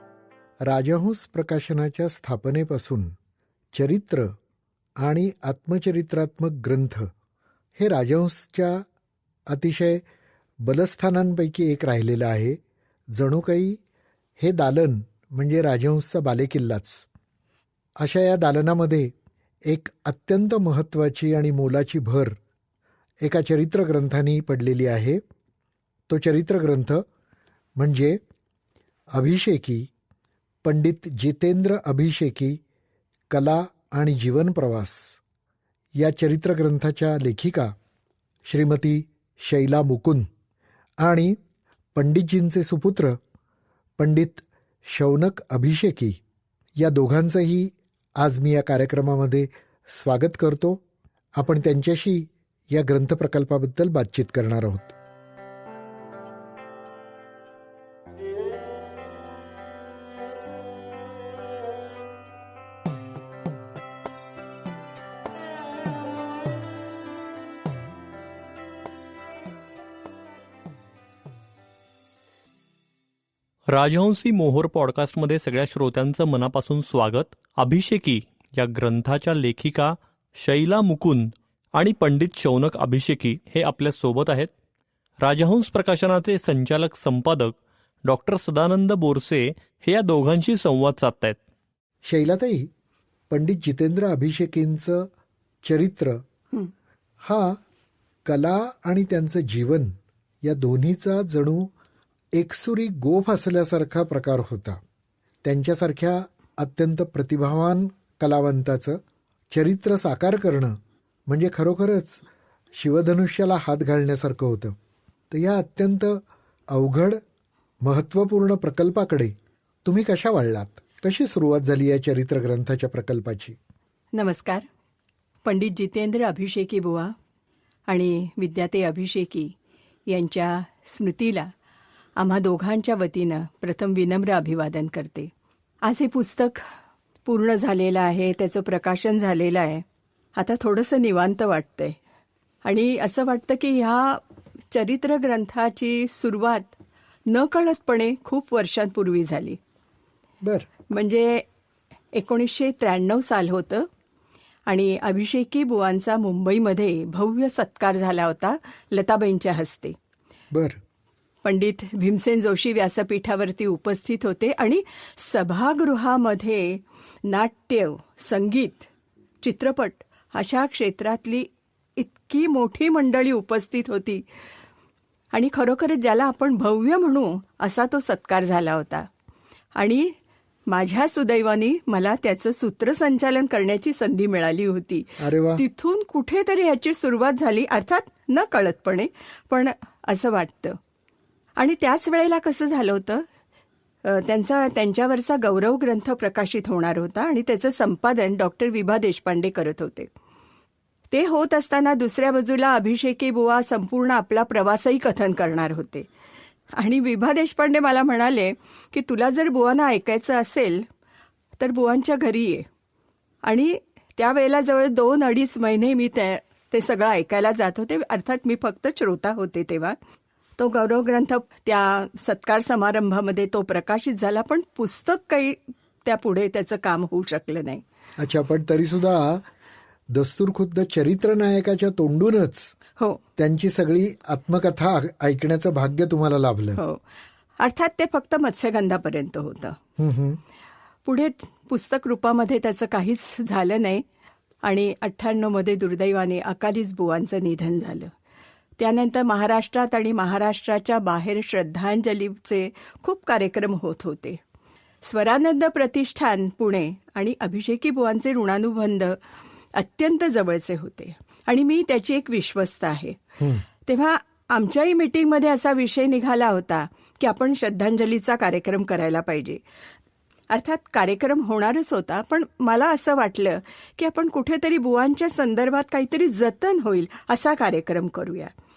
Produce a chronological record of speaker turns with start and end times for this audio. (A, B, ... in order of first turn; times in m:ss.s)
0:00.6-0:03.1 A
0:03.7-0:04.3 A
0:05.0-0:07.1 A
0:07.8-0:08.8 A
0:09.5-0:10.0 A
0:10.6-0:12.6 A
0:13.1-0:13.8 A
0:14.4-0:17.1 A
0:18.0-0:19.1 A
0:19.6-0:22.4 A
0:23.2-0:25.2 A
0:26.1-0:27.0 A
0:27.8-0:28.2 A
0:29.1-0:29.9 A
0:30.6-0:32.6 A
0:33.3-0:35.2 A
0:36.0-0:37.8 A
0:38.5-0:40.3 A
0:41.0-0:41.4 A
0:42.0-0:43.2 A
0:44.0-0:46.2 A
0:46.8-0:50.8 A
0:51.4-0:54.9 A
1:13.7-1:24.5 B
1:25.2-1:31.4 B
1:32.0-1:32.7 A
1:33.3-1:35.1 A
1:35.6-1:36.2 A
1:37.2-1:37.6 A
1:38.2-1:41.7 A
1:42.3-1:44.8 A
1:45.4-1:49.0 A
1:49.5-1:52.2 A
1:52.8-1:54.8 A
1:55.3-1:57.2 A
1:57.8-2:03.6 A
2:04.1-2:04.6 C
2:05.4-2:07.2 C
2:07.9-2:09.5 C
2:10.1-2:11.5 C
2:12.2-2:15.3 C
2:15.8-2:16.7 C
2:17.2-2:19.8 C
2:20.4-2:22.0 C
2:22.6-2:26.8 C
2:27.3-2:29.6 C
2:30.4-2:30.7 A
2:30.9-2:31.5 C
2:32.1-2:33.9 C
2:34.7-2:40.0 C
2:40.5-2:40.8 A
2:41.4-2:48.9 C
2:49.4-2:54.2 C
2:55.3-2:59.1 C
2:59.8-3:00.2 C
3:00.7-3:10.8 C
3:05.2-3:05.6 A
3:11.6-3:13.3 C
3:14.0-3:20.1 C
3:21.1-3:26.1 C
3:26.7-3:30.9 C
3:31.6-3:32.7 C
3:33.4-3:40.0 C
3:40.6-3:47.8 C
3:48.2-3:49.4 A
3:50.1-3:52.8 A
3:53.4-3:56.8 A
3:56.8-3:57.0 C
3:57.6-3:59.8 C
4:00.0-4:00.4 A
4:01.0-4:04.0 C
4:04.6-4:08.1 C
4:08.8-4:14.4 C
4:15.0-4:19.2 C
4:19.7-4:23.2 C
4:23.8-4:29.6 C
4:30.5-4:38.5 C